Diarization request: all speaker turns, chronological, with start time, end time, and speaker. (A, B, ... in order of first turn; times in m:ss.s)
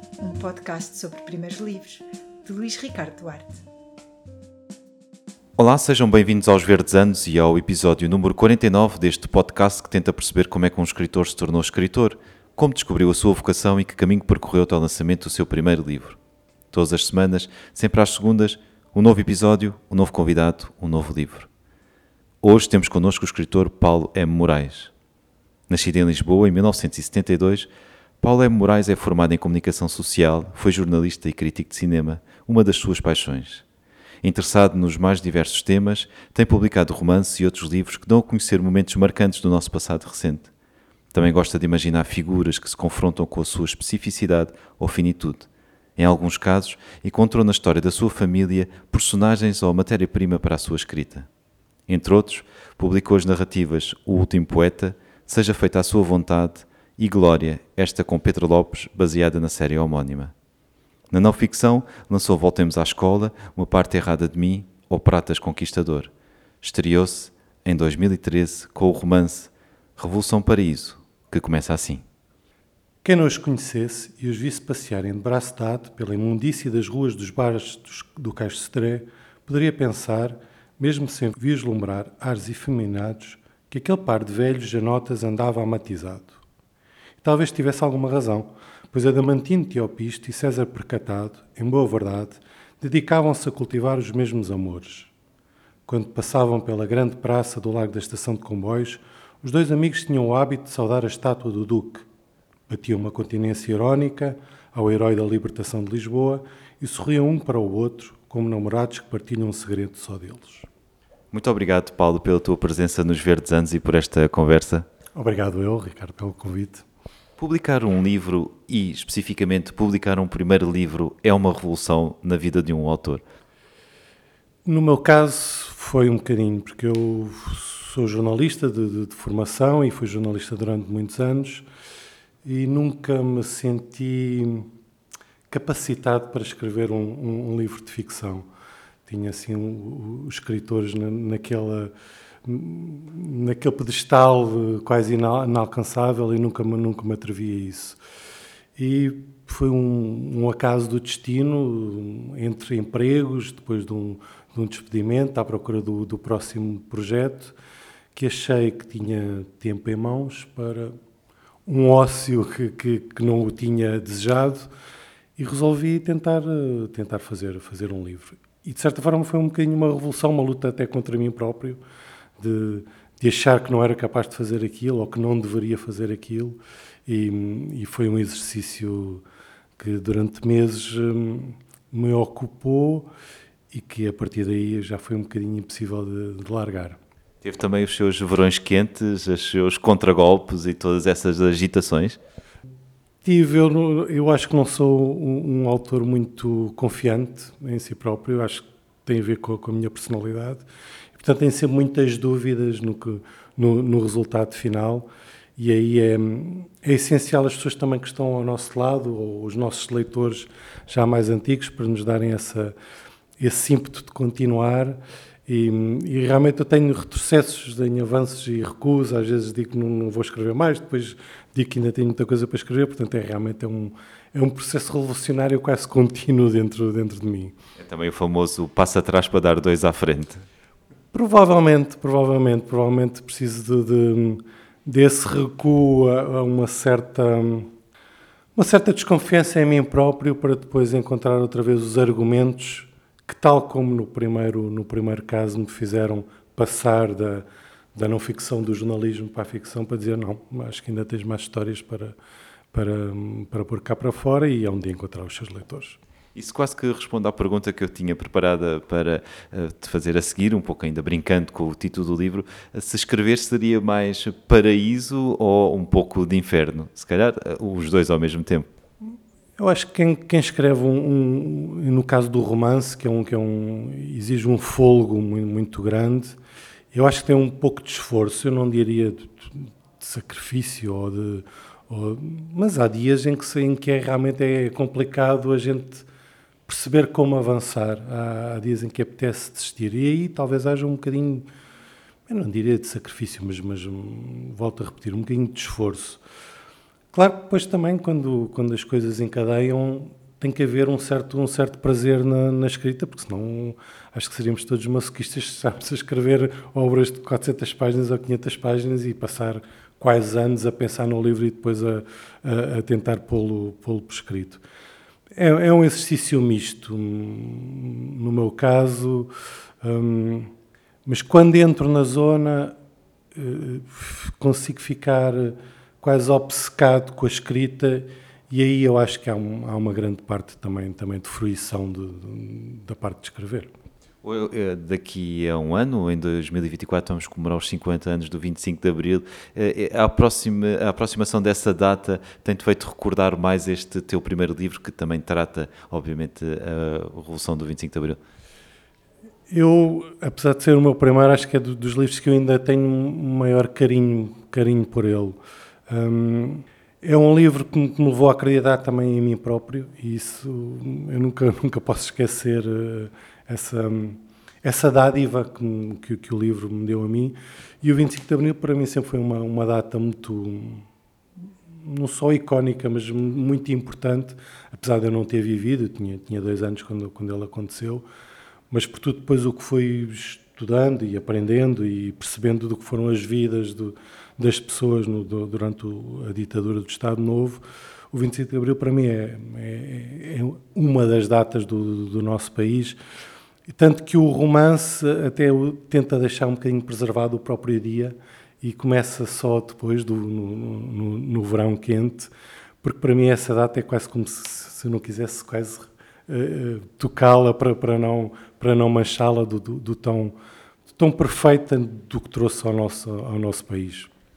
0:00.2-0:03.6 A
0:05.6-0:16.2 B
0:16.7-0:21.5 B
0:22.4-0:24.9 B
0:25.7-0:27.7 B
0:28.2-0:33.6 B
0:34.2-0:40.5 B
0:41.1-0:51.3 B
0:51.9-1:00.3 B
1:01.1-1:06.1 B
1:06.6-1:12.0 B
1:13.0-1:26.4 C
1:27.2-1:35.1 C
1:35.9-1:42.1 C
1:42.7-1:50.7 C
1:51.3-1:54.9 B
1:55.2-1:56.8 C
1:57.4-2:03.2 B
2:04.7-2:11.7 C
2:12.4-2:14.7 C
2:15.5-2:18.4 C
2:19.1-2:21.9 C
2:22.4-2:28.0 C
2:28.8-2:37.6 C
2:38.2-2:40.9 C
2:41.7-2:44.7 C
2:45.4-2:51.8 C
2:52.4-2:59.2 C
2:59.8-3:03.1 C
3:03.7-3:07.0 C
3:07.4-3:12.2 B
3:13.2-3:32.7 C
3:33.4-3:47.5 C
3:47.8-3:50.4 B
3:51.1-3:57.7 C
3:58.6-4:12.2 C
4:12.7-4:16.0 C
4:16.4-4:28.7 B
4:29.6-4:36.4 C
4:36.9-4:46.1 C
4:46.7-4:51.5 C
4:52.3-4:56.2 C
4:57.1-5:14.6 C
5:15.4-5:19.3 C
5:19.8-5:20.5 C
5:21.1-5:22.8 C
5:23.4-5:33.7 C
5:34.2-5:48.2 B
5:49.5-6:10.8 C
6:11.8-6:18.0 C
6:18.7-6:33.0 C
6:33.7-6:42.3 C
6:42.8-6:50.3 C
6:51.0-6:54.1 C